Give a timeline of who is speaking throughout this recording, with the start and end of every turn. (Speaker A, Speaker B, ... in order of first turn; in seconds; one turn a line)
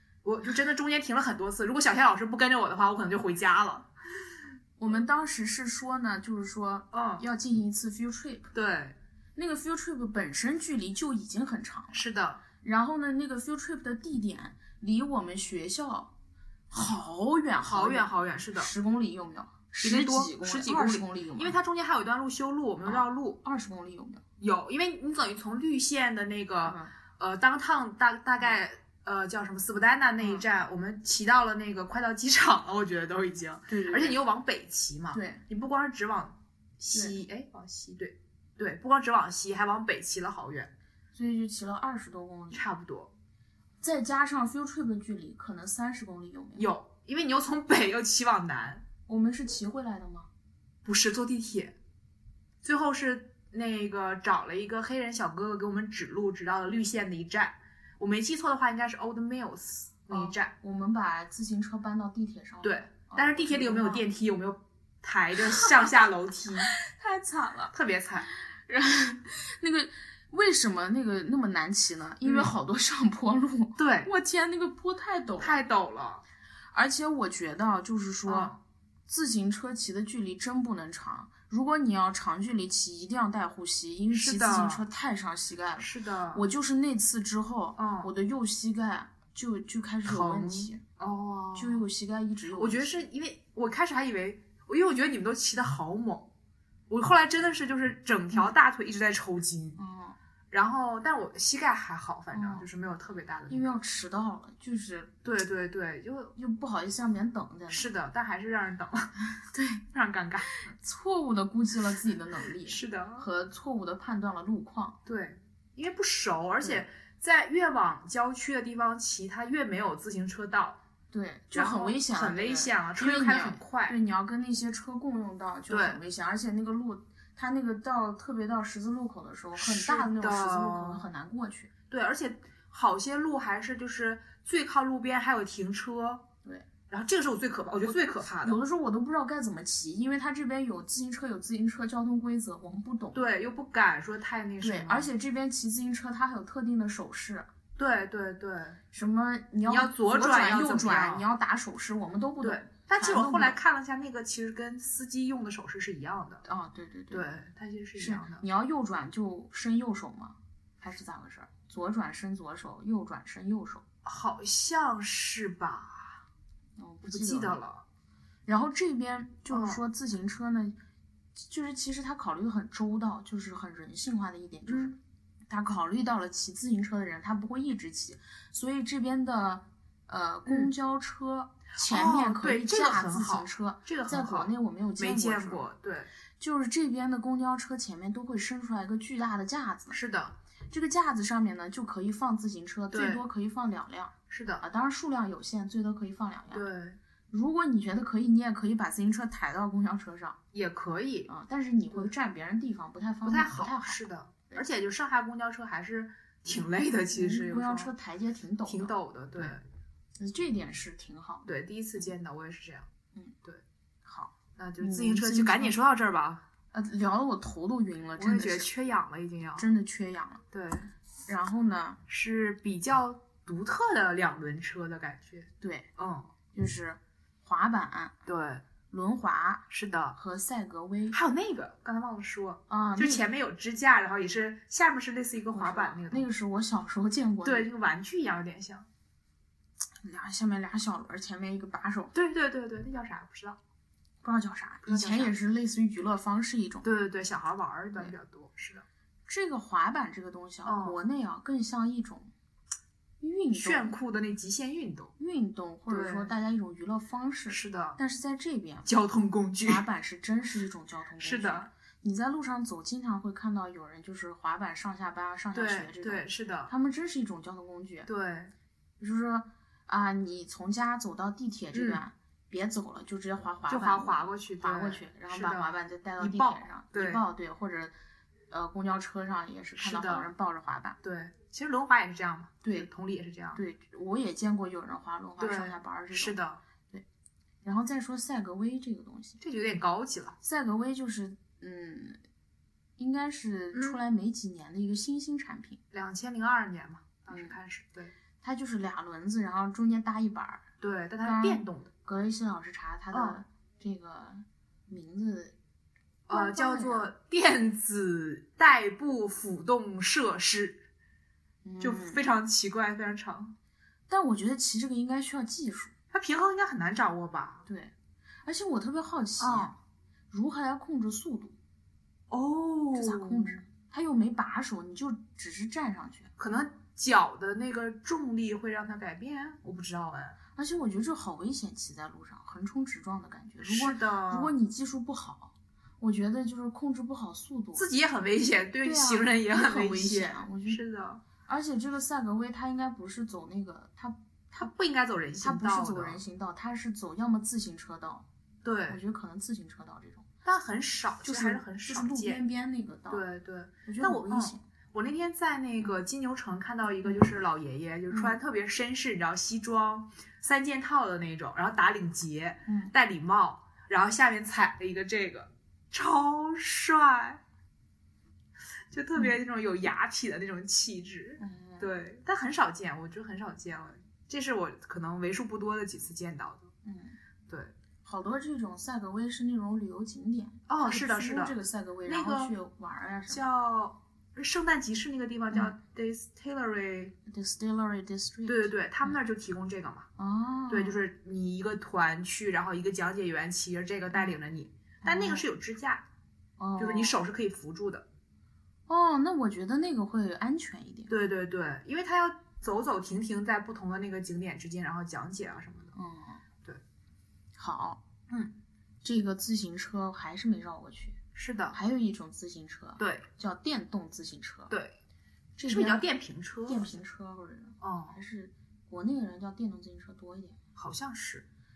Speaker A: 0.2-3.9
Speaker B: 4.8-8.5
Speaker A: 6.9-7.2
Speaker A: 8.5-9.0
Speaker B: 9.3-12.1
Speaker A: 11.9-12.4
Speaker B: 12.6-16.1
Speaker B: 16.7-21.6
Speaker A: 17.6-18.7
Speaker A: 19.8-23.4
Speaker B: 22.8-24.2
Speaker A: 24.4-40.7
Speaker B: 26.6-26.9
Speaker B: 30.2-30.4
Speaker B: 33.7-34.2
Speaker B: 35.1-35.4
Speaker B: 36.9-37.2
Speaker B: 41.1-42.7
Speaker A: 42.5-43.1
Speaker B: 43.8-46.7
Speaker A: 46.5-48.8
Speaker B: 49.1-50.3
Speaker A: 50.8-51.8
Speaker A: 52.6-60.5
Speaker B: 60.1-64.0
Speaker A: 62.6-66.7
Speaker B: 65.5-66.0
Speaker B: 66.6-67.7
Speaker A: 67.7-68.3
Speaker B: 68.3-75.6
Speaker A: 72.2-72.5
Speaker A: 73.8-74.1
Speaker A: 75.4-76.2
Speaker B: 76.7-78.5
Speaker A: 78.2-78.6
Speaker B: 79.1-90.8
Speaker A: 84.1-84.8
Speaker A: 85.8-86.4
Speaker A: 87.8-88.1
Speaker A: 90.0-91.8
Speaker B: 91.5-93.1
Speaker A: 92.5-96.3
Speaker A: 96.9-99.8
Speaker B: 99.8-100.2
Speaker A: 100.5-103.8
Speaker B: 102.3-102.7
Speaker B: 103.5-105.1
Speaker A: 105.2-106.3
Speaker B: 106.3-107.9
Speaker A: 107.7-109.1
Speaker B: 109.4-109.8
Speaker A: 109.9-110.7
Speaker B: 110.5-115.0
Speaker A: 112.6-113.3
Speaker A: 115.0-120.8
Speaker B: 121.1-131.7
Speaker A: 121.5-124.0
Speaker A: 125.7-126.0
Speaker A: 129.5-131.1
Speaker A: 131.9-136.3
Speaker A: 136.9-138.6
Speaker B: 138.4-143.2
Speaker A: 143.1-145.1
Speaker B: 144.6-147.5
Speaker A: 147.8-148.8
Speaker B: 148.9-153.6
Speaker A: 149.6-151.2
Speaker A: 152.4-156.4
Speaker B: 156.4-157.3
Speaker A: 157.1-158.4
Speaker B: 157.9-163.8
Speaker A: 164.0-166.2
Speaker B: 166.8-167.6
Speaker A: 167.0-167.8
Speaker B: 168.4-170.8
Speaker A: 169.5-169.8
Speaker B: 171.4-175.0
Speaker A: 174.7-174.9
Speaker B: 175.5-185.7
Speaker A: 180.4-180.7
Speaker A: 181.8-186.1
Speaker B: 186.4-190.0
Speaker A: 189.9-190.4
Speaker B: 190.7-196.6
Speaker A: 192.9-193.2
Speaker A: 194.3-194.6
Speaker A: 196.5-197.0
Speaker B: 197.3-200.4
Speaker A: 200.5-201.3
Speaker B: 201.3-204.6
Speaker A: 203.2-207.9
Speaker B: 207.1-209.5
Speaker A: 208.7-209.6
Speaker B: 210.2-211.5
Speaker A: 211.4-212.9
Speaker B: 214.0-215.8
Speaker A: 214.6-216.4
Speaker B: 216.7-218.7
Speaker A: 218.2-219.7
Speaker B: 219.6-220.4
Speaker A: 220.5-220.9
Speaker B: 221.2-222.0
Speaker A: 222.1-226.3
Speaker B: 225.6-225.9
Speaker B: 226.5-228.2
Speaker A: 228.2-228.6
Speaker B: 228.9-231.2
Speaker A: 229.7-230.2
Speaker A: 231.1-236.3
Speaker B: 232.7-233.2
Speaker B: 235.5-237.7
Speaker A: 237.4-238.9
Speaker B: 240.0-242.1
Speaker A: 242.1-243.6
Speaker B: 244.2-246.9
Speaker A: 244.8-245.3
Speaker A: 246.8-248.8
Speaker B: 249.3-252.3
Speaker A: 250.6-251.0
Speaker B: 253.2-254.0
Speaker A: 253.5-255.1
Speaker B: 255.2-258.9
Speaker A: 255.9-256.3
Speaker A: 257.5-258.0
Speaker A: 258.9-259.9
Speaker B: 259.6-268.1
Speaker A: 261.2-261.7
Speaker A: 265.5-266.7
Speaker A: 268.1-268.5
Speaker B: 269.0-277.9
Speaker A: 271.7-272.0
Speaker A: 273.7-277.2
Speaker B: 278.5-281.0
Speaker A: 279.8-280.3
Speaker A: 281.0-283.6
Speaker B: 282.6-282.9
Speaker B: 283.5-286.4
Speaker A: 285.4-286.6
Speaker B: 287.6-289.4
Speaker A: 289.4-290.4
Speaker B: 290.4-292.2
Speaker B: 293.0-295.8
Speaker A: 293.7-294.0
Speaker A: 295.9-298.1
Speaker B: 297.3-297.6
Speaker B: 298.4-300.7
Speaker A: 300.8-301.9
Speaker B: 301.2-305.5
Speaker A: 303.1-303.4
Speaker A: 306.3-310.8
Speaker B: 306.3-307.1
Speaker B: 311.6-312.2
Speaker A: 311.8-313.5
Speaker B: 314.1-315.9
Speaker A: 316.1-317.6
Speaker B: 317.6-317.9
Speaker B: 318.4-319.8
Speaker A: 319.4-319.7
Speaker B: 320.3-321.6
Speaker A: 322.3-323.6
Speaker B: 322.9-326.3
Speaker A: 326.4-330.4
Speaker B: 330.6-337.9
Speaker A: 333.6-334.5
Speaker A: 337.8-341.2
Speaker B: 338.8-340.8
Speaker B: 341.4-344.7
Speaker A: 344.6-346.2
Speaker B: 345.4-348.2
Speaker A: 348.6-349.0
Speaker B: 348.9-350.2
Speaker A: 350.4-352.4
Speaker B: 351.2-353.2
Speaker A: 353.1-367.4
Speaker B: 353.8-354.6
Speaker B: 358.1-358.4
Speaker B: 362.6-362.9
Speaker A: 368.9-376.7
Speaker B: 371.4-371.9
Speaker B: 376.8-377.2
Speaker A: 377.5-377.7
Speaker B: 378.0-383.4
Speaker A: 380.7-382.5
Speaker A: 383.3-387.1
Speaker B: 387.2-389.2
Speaker A: 388.4-390.1
Speaker B: 390.2-391.0
Speaker A: 390.7-396.0
Speaker B: 394.1-394.4
Speaker B: 395.0-395.5
Speaker B: 396.6-397.2
Speaker A: 396.8-398.1
Speaker B: 398.9-401.1
Speaker A: 401.1-405.9
Speaker B: 405.9-406.4
Speaker B: 407.6-408.0
Speaker A: 408.3-408.5
Speaker B: 409.0-411.2
Speaker A: 411.3-411.8
Speaker B: 411.7-414.7
Speaker A: 413.0-413.2
Speaker A: 414.7-414.9
Speaker B: 415.6-416.1
Speaker A: 415.7-416.8
Speaker B: 416.6-420.6
Speaker A: 417.8-418.2
Speaker A: 420.7-421.4